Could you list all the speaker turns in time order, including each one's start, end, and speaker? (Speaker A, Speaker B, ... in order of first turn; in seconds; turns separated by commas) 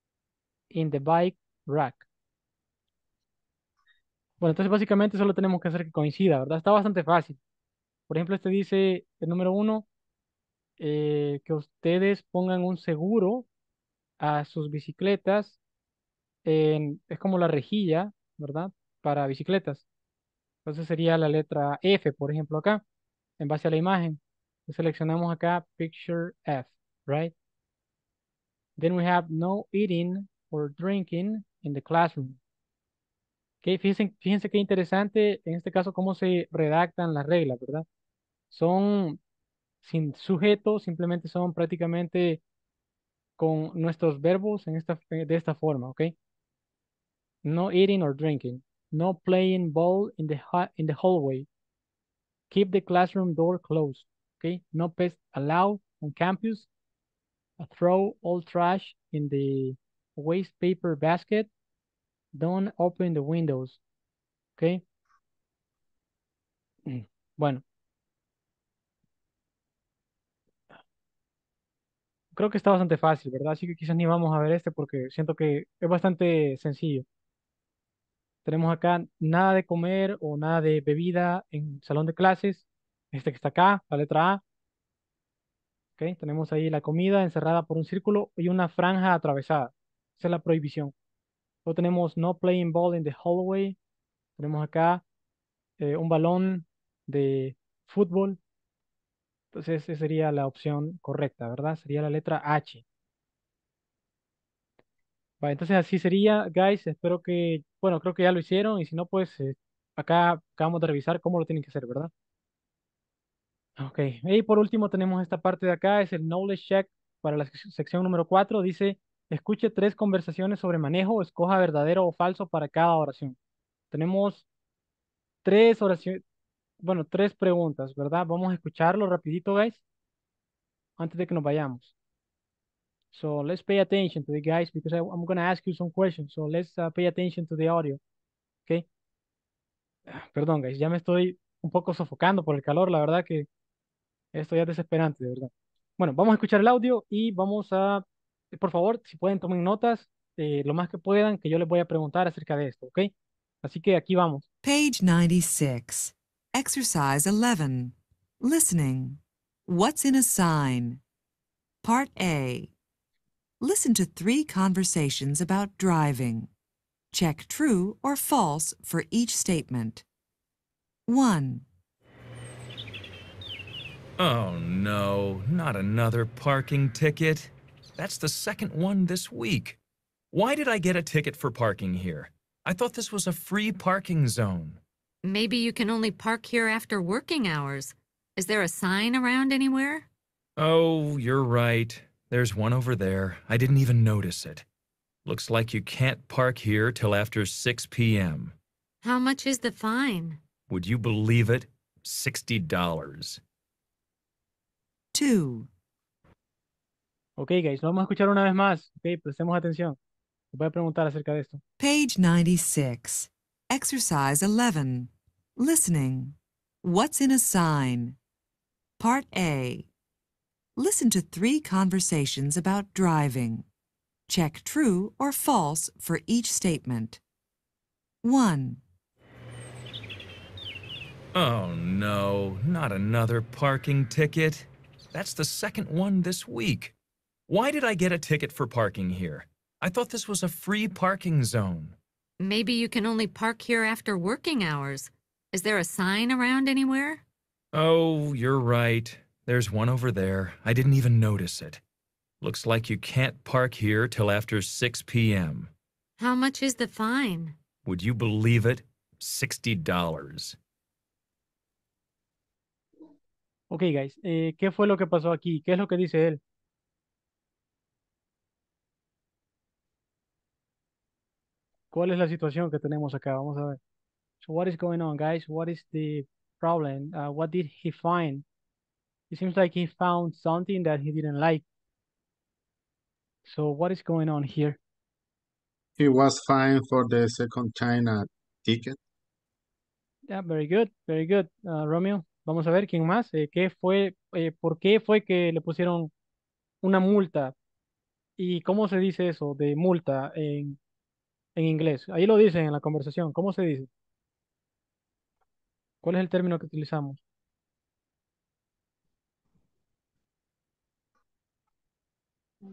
Speaker A: 0.7-2.0, Speaker A: 4.4-7.4, Speaker A: 8.1-9.9, Speaker A: 10.8-13.5, Speaker A: 14.2-15.6, Speaker A: 16.4-19.9, Speaker A: 20.6-22.8, Speaker A: 23.4-27.3, Speaker A: 28.8-32.4, Speaker A: 33.6-37.9, Speaker A: 38.5-39.2, Speaker A: 39.8-42.4, Speaker A: 43.4-46.1, Speaker A: 47.4-51.5, Speaker A: 52.5-56.7, Speaker A: 57.6-61.5, Speaker A: 62.3-63.8, Speaker A: 64.6-64.8, Speaker A: 66.9-67.6, Speaker A: 72.3-77.0, Speaker A: 78.5-84.4, Speaker A: 86.0-90.9, Speaker A: 91.7-93.8, Speaker A: 94.4-95.0, Speaker A: 95.8-98.4, Speaker A: 99.5-102.8, Speaker A: 105.4-112.1, Speaker A: 113.8-123.4, Speaker A: 123.9-124.5, Speaker A: 125.5-126.2, Speaker A: 126.8-129.8, Speaker A: 131.0-131.9, Speaker A: 133.1-138.0, Speaker A: 140.1-143.5, Speaker A: 144.3-154.5, Speaker B: 154.6-161.0, Speaker B: 161.8-162.7, Speaker B: 163.6-166.5, Speaker B: 167.1-170.0, Speaker B: 171.1-171.7, Speaker C: 174.2-179.8, Speaker C: 180.3-184.8, Speaker D: 185.2-190.1, Speaker C: 190.6-194.6, Speaker C: 195.2-198.6, Speaker D: 199.0-200.4, Speaker C: 200.7-203.4, Speaker B: 205.1-205.7, Speaker A: 207.4-210.0, Speaker A: 210.5-211.6, Speaker B: 211.8-218.2, Speaker B: 219.0-219.9, Speaker B: 220.8-223.7, Speaker B: 224.3-227.2, Speaker B: 228.2-228.8, Speaker C: 231.3-236.9, Speaker C: 237.5-242.0, Speaker D: 242.4-247.2, Speaker C: 247.7-251.8, Speaker C: 252.4-255.7, Speaker D: 256.2-257.6, Speaker C: 257.9-260.6, Speaker A: 263.7-266.4, Speaker A: 271.9-273.8, Speaker A: 274.4-278.4, Speaker A: 279.3-281.6, Speaker A: 283.4-284.8, Speaker E: 286.0-289.0, Speaker A: 290.3-296.1, Speaker A: 296.8-297.5, Speaker A: 298.4-300.8, Speaker A: 301.6-303.9, Speaker A: 306.0-307.2